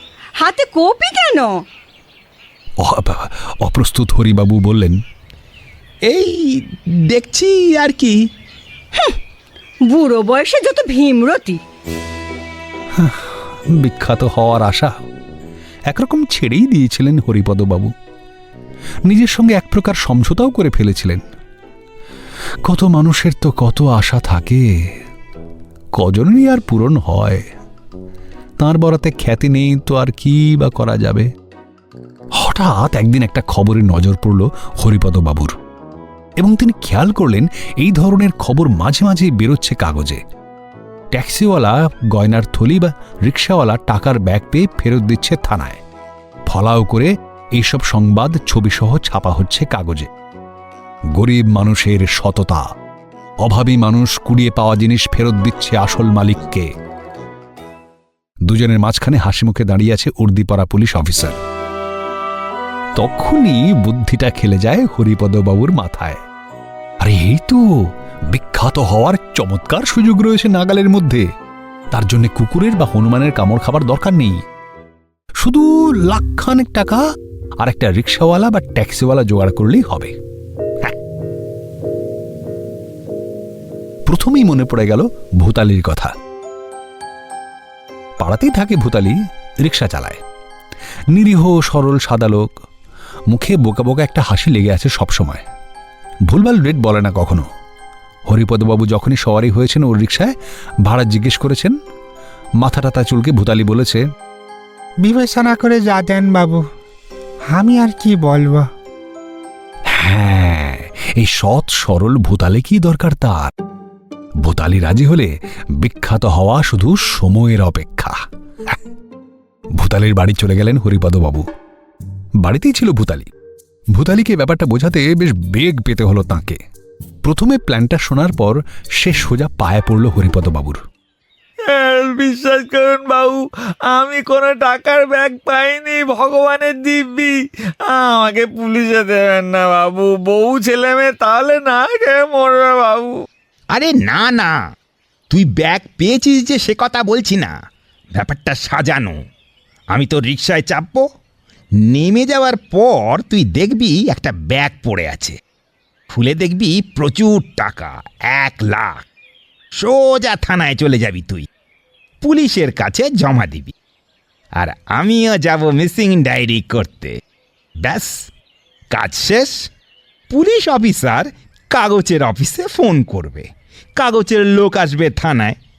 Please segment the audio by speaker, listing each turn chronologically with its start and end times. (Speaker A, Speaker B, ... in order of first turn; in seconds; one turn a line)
Speaker A: 0.4-1.6
Speaker B: 2.8-5.0
Speaker C: 6.0-8.2
Speaker A: 9.9-11.6
Speaker B: 12.9-14.9
Speaker B: 15.9-17.9
Speaker B: 19.1-21.2
Speaker B: 22.6-24.6
Speaker B: 25.9-27.4
Speaker B: 28.6-31.3
Speaker B: 32.4-35.5
Speaker B: 36.4-40.2
Speaker B: 41.1-45.8
Speaker B: 46.5-50.1
Speaker B: 51.1-52.7
Speaker B: 53.4-56.7
Speaker B: 58.5-61.4
Speaker B: 63.0-66.2
Speaker B: 67.0-67.7
Speaker B: 68.3-71.2
Speaker B: 71.9-74.4
Speaker B: 75.4-77.0
Speaker B: 77.6-80.2
Speaker B: 84.0-86.1
Speaker B: 88.2-90.2
Speaker B: 91.1-92.5
Speaker B: 93.3-95.4
Speaker B: 96.3-97.5
Speaker B: 98.3-100.3
Speaker B: 100.8-101.8
Speaker B: 102.6-104.0
Speaker D: 105.0-106.7
Speaker D: 107.5-108.7
Speaker B: 109.9-113.5
Speaker B: 114.4-118.2
Speaker B: 119.7-121.5
Speaker B: 122.4-123.3
Speaker B: 123.9-126.6
Speaker B: 127.2-130.8
Speaker E: 131.7-143.2
Speaker C: 143.7-144.5
Speaker C: 145.3-147.5
Speaker C: 148.2-149.2
Speaker C: 149.9-151.0
Speaker C: 151.8-155.4
Speaker C: 156.1-159.0
Speaker C: 159.7-161.5
Speaker C: 162.2-163.7
Speaker C: 164.6-167.2
Speaker C: 167.8-168.3
Speaker C: 168.9-169.7
Speaker C: 170.3-175.6